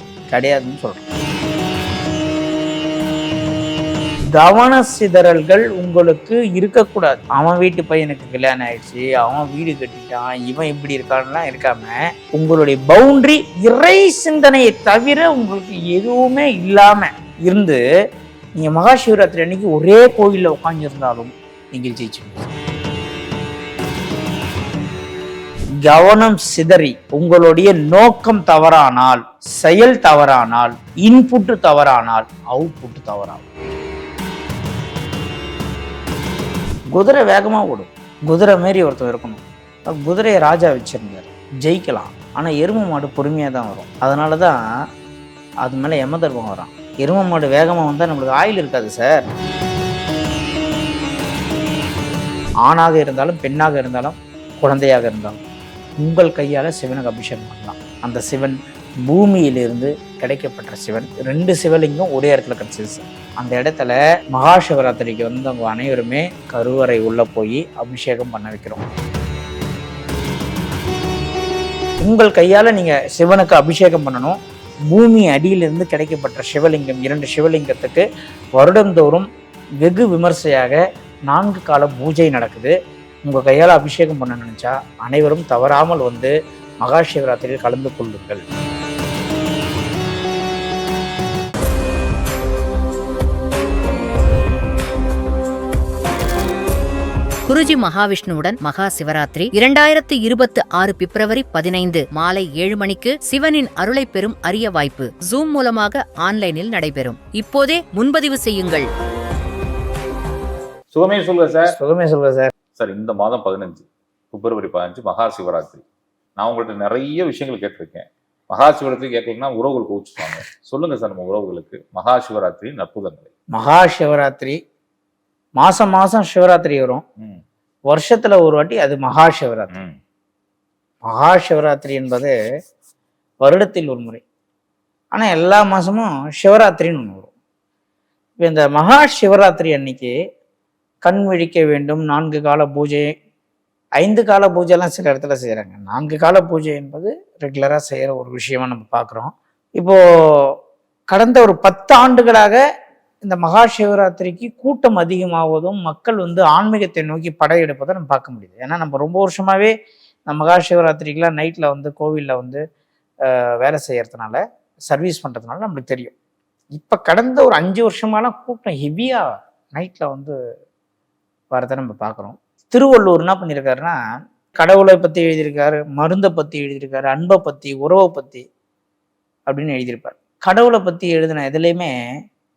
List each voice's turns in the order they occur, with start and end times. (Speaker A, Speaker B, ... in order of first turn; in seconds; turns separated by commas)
Speaker A: 0.3-1.1, Speaker A: 4.3-17.8, Speaker A: 18.6-22.5, Speaker A: 25.8-33.5, Speaker A: 36.9-44.6, Speaker A: 45.6-49.3, Speaker A: 52.6-55.4, Speaker A: 56.0-68.9, Speaker A: 72.0-74.4, Speaker A: 74.9-78.0, Speaker A: 78.6-79.3, Speaker A: 79.8-82.7, Speaker A: 83.2-88.5, Speaker B: 97.5-108.9, Speaker C: 110.9-111.8, Speaker A: 111.7-112.5, Speaker C: 112.8-115.8, Speaker C: 116.4-123.3, Speaker A: 123.5-124.6, Speaker A: 125.6-127.0, Speaker A: 127.9-129.8, Speaker C: 129.7-130.0, Speaker A: 131.0-132.3, Speaker A: 133.4-134.2, Speaker A: 135.1-137.3, Speaker A: 138.4-140.1, Speaker A: 141.0-143.1, Speaker A: 144.0-150.5, Speaker A: 151.1-152.6, Speaker A: 153.2-159.7, Speaker A: 160.3-162.6, Speaker A: 163.2-166.1, Speaker A: 166.7-170.3, Speaker A: 171.5-174.0, Speaker A: 174.6-178.5, Speaker A: 179.5-181.9